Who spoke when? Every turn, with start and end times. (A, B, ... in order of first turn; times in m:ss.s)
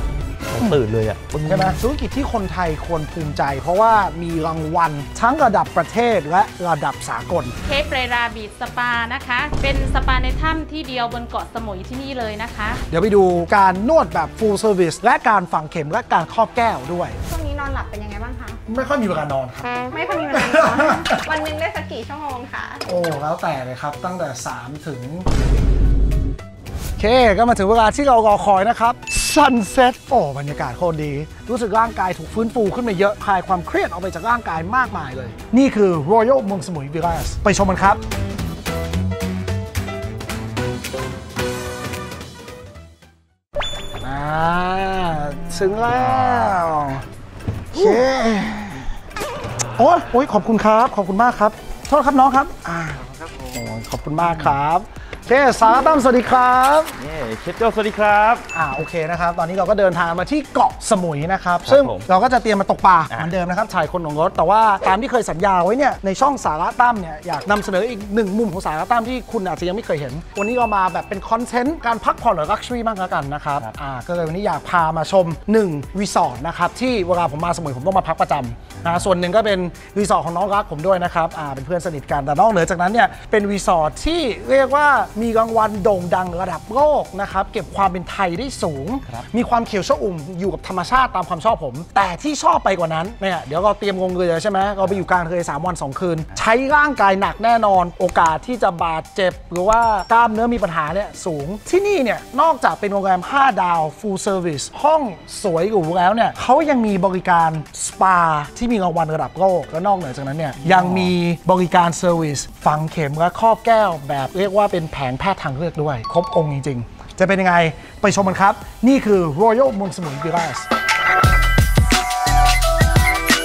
0:00.5-0:01.8 A
0:01.4-0:07.5 B
0:07.6-0:12.8 C
0:12.9-0:17.2 B
0:17.3-0:18.6 D
0:18.7-0:21.2 B
0:19.9-0:22.8 D
0:22.8-0:25.3 B
0:27.0-0:38.0 B
0:44.0-0:47.0 B
0:47.7-0:48.9 B
0:49.8-0:57.0 B
0:57.0-0:58.4 A
0:58.5-2:00.7 B
1:01.6-1:02.1 A
1:50.8-1:51.0 A